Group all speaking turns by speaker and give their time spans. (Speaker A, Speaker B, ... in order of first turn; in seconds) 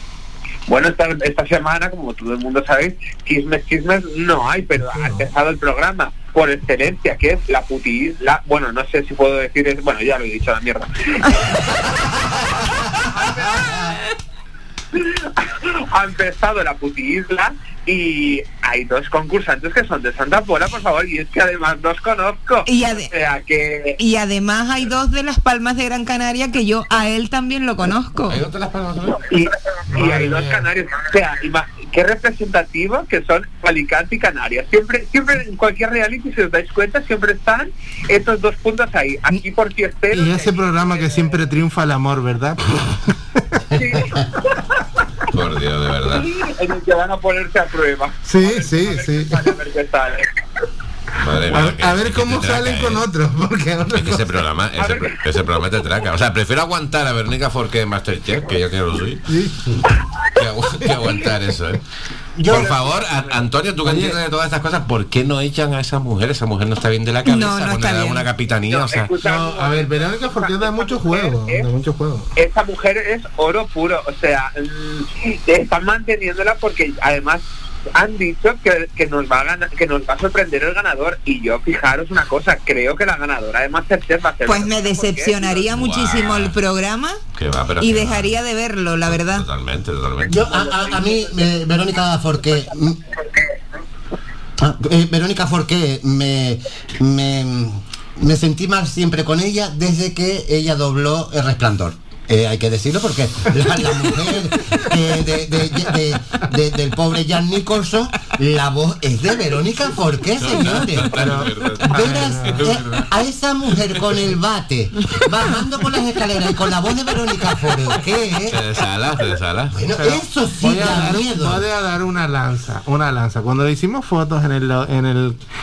Speaker A: 0.7-11.6, 13.0-14.0, 14.9-24.0, 29.1-41.5, 43.7-44.8, 46.0-50.3, 54.8-55.2, 68.7-71.7, 72.3-77.4, 78.0-85.6, 90.5-91.4
Speaker B: 22.6-23.1, 24.0-28.4, 67.2-68.2, 84.4-87.2, 87.8-89.4
Speaker C: 28.3-29.2, 45.3-46.3, 51.2-53.0, 53.9-59.2, 60.3-61.8, 62.4-69.1, 85.7-86.6, 87.3-88.3, 89.1-90.4, 110.4-113.1, 118.5-119.8
Speaker D: 29.9-30.6, 40.1-42.8, 48.2-49.5, 51.5-54.3, 59.3-59.5, 63.8-64.2, 69.2-72.3, 111.1-112.7, 120.0-125.4
Speaker E: 62.4-62.7, 90.3-93.0, 94.6-111.3, 111.9-118.6, 119.8-121.6